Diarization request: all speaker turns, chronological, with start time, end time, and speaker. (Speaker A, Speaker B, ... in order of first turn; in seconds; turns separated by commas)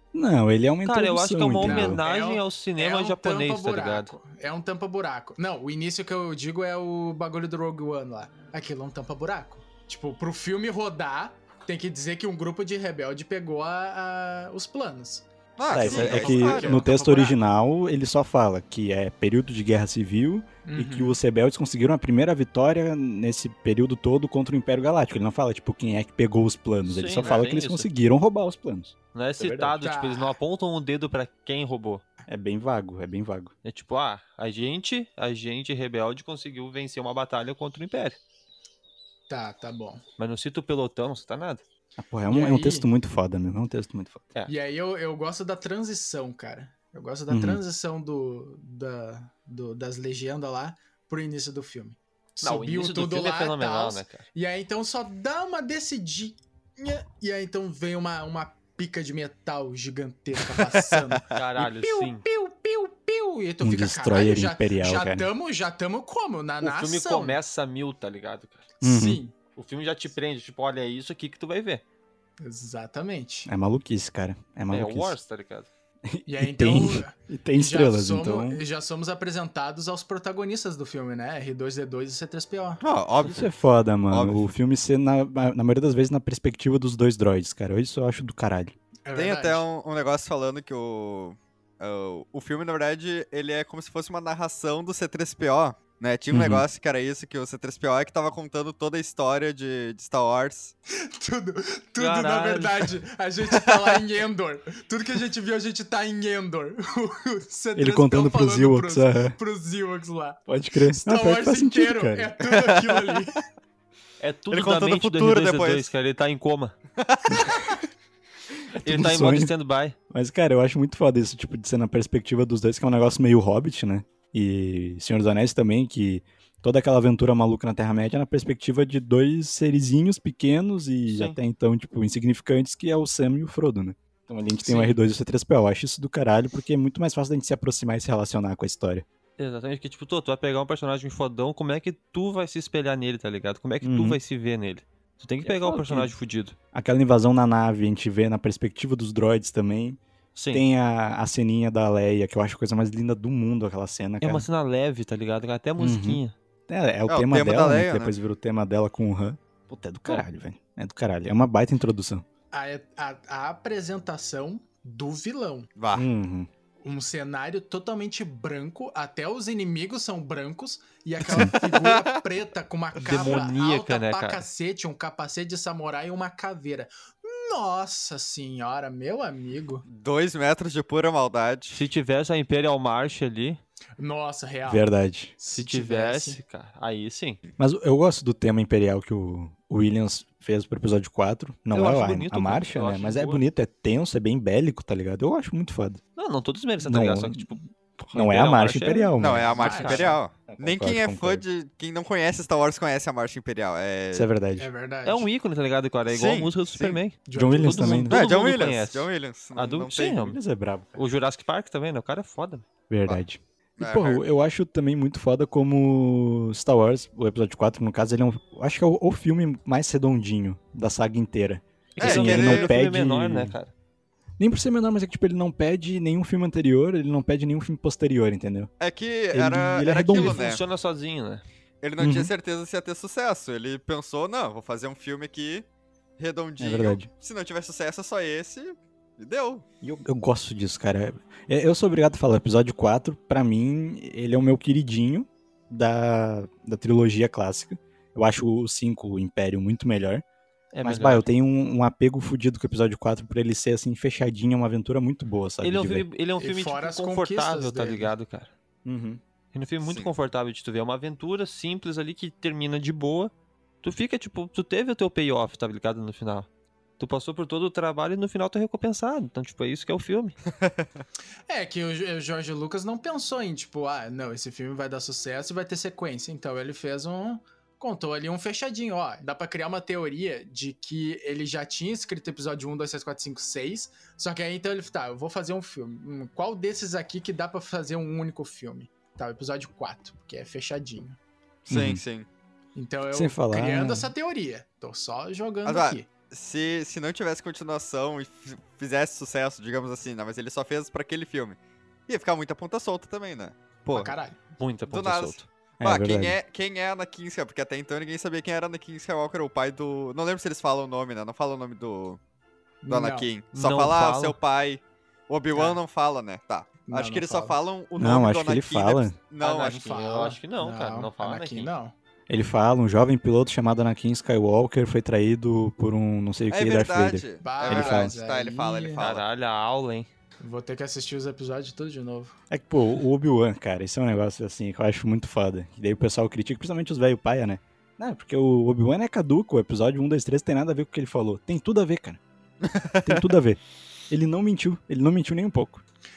Speaker A: 0.1-2.0, Speaker B: 0.8-4.1, Speaker C: 1.6-17.4, Speaker D: 15.6-16.8, Speaker A: 15.7-29.8, Speaker C: 20.6-21.2, Speaker B: 26.8-27.9, Speaker B: 29.1-32.0, Speaker C: 29.8-30.4, Speaker A: 32.3-33.5, Speaker B: 33.6-38.2, Speaker C: 39.3-40.0, Speaker B: 40.2-41.6, Speaker A: 42.0-44.3, Speaker C: 42.3-42.9, Speaker C: 44.5-67.4, Speaker A: 47.3-47.6, Speaker B: 52.4-54.2, Speaker D: 60.7-61.1, Speaker B: 61.3-62.2, Speaker A: 63.6-65.3, Speaker B: 66.6-68.7, Speaker C: 68.8-69.3, Speaker A: 68.8-69.2, Speaker B: 69.5-71.8, Speaker C: 72.4-73.5, Speaker A: 73.5-75.2, Speaker B: 74.7-75.7, Speaker A: 76.1-78.6, Speaker C: 76.3-82.8, Speaker D: 82.8-83.5, Speaker A: 83.2-88.7, Speaker D: 84.1-84.4, Speaker C: 89.0-89.6, Speaker D: 89.1-100.7, Speaker A: 96.3-96.6, Speaker C: 101.1-110.4, Speaker B: 102.0-102.9, Speaker A: 107.8-109.4, Speaker A: 110.5-112.3, Speaker C: 110.9-113.4, Speaker D: 112.5-113.2, Speaker B: 114.2-116.8, Speaker D: 114.5-115.9, Speaker D: 117.0-117.8, Speaker A: 118.7-119.5, Speaker B: 118.8-119.9, Speaker A: 120.1-139.0, Speaker B: 131.1-131.4, Speaker B: 134.7-134.9, Speaker B: 139.4-146.6, Speaker A: 143.8-144.2, Speaker A: 145.4-146.1, Speaker A: 146.7-150.0, Speaker B: 150.3-150.6, Speaker A: 150.5-154.5, Speaker B: 154.2-156.3, Speaker A: 155.8-162.2, Speaker D: 157.1-158.1, Speaker C: 162.5-165.7, Speaker D: 165.8-166.1, Speaker A: 165.9-166.5, Speaker C: 166.8-179.8, Speaker D: 171.3-172.1, Speaker B: 173.0-174.4, Speaker D: 179.8-181.8, Speaker B: 181.7-183.6, Speaker C: 184.0-184.9, Speaker A: 184.7-185.3, Speaker C: 185.4-186.4, Speaker B: 185.5-187.4, Speaker A: 187.6-196.0, Speaker B: 191.7-193.4, Speaker B: 196.2-200.2, Speaker A: 196.8-199.8, Speaker D: 199.2-204.3, Speaker C: 199.6-200.2, Speaker A: 200.4-201.4, Speaker A: 204.1-204.7, Speaker C: 204.6-205.3, Speaker B: 205.0-210.4, Speaker D: 206.1-207.0, Speaker C: 207.3-208.1, Speaker A: 207.3-208.2, Speaker D: 208.1-210.2, Speaker A: 210.2-211.0, Speaker B: 210.9-212.7, Speaker A: 212.9-223.6, Speaker D: 213.8-214.2, Speaker B: 221.9-223.7, Speaker D: 222.0-222.7, Speaker A: 224.4-228.7, Speaker D: 228.8-230.6, Speaker A: 229.3-230.5, Speaker B: 230.1-231.4, Speaker D: 231.8-235.7, Speaker A: 232.0-232.3, Speaker D: 236.2-239.6, Speaker A: 236.6-237.1, Speaker A: 239.8-250.2, Speaker B: 250.7-251.3, Speaker A: 250.8-256.1, Speaker B: 255.6-258.5, Speaker C: 256.4-258.1, Speaker A: 258.8-259.2, Speaker B: 259.5-263.3, Speaker D: 259.8-260.1, Speaker B: 263.8-266.5, Speaker B: 267.0-270.4, Speaker C: 271.5-291.2, Speaker D: 291.6-292.3, Speaker A: 291.7-292.0, Speaker C: 292.8-296.1, Speaker A: 293.1-294.1, Speaker D: 295.6-304.1, Speaker C: 303.9-304.4, Speaker B: 304.6-305.5, Speaker D: 304.9-312.2, Speaker A: 305.8-306.4, Speaker C: 312.8-313.3, Speaker D: 312.9-319.8, Speaker B: 313.5-314.4, Speaker C: 315.5-315.8, Speaker C: 316.9-317.6, Speaker A: 318.0-319.2, Speaker B: 319.4-321.7, Speaker C: 319.4-321.9, Speaker A: 322.3-328.1, Speaker D: 326.5-329.2, Speaker C: 327.4-329.0, Speaker B: 329.0-330.1, Speaker C: 330.4-332.3, Speaker A: 332.5-342.2, Speaker D: 342.6-343.2, Speaker A: 343.0-345.8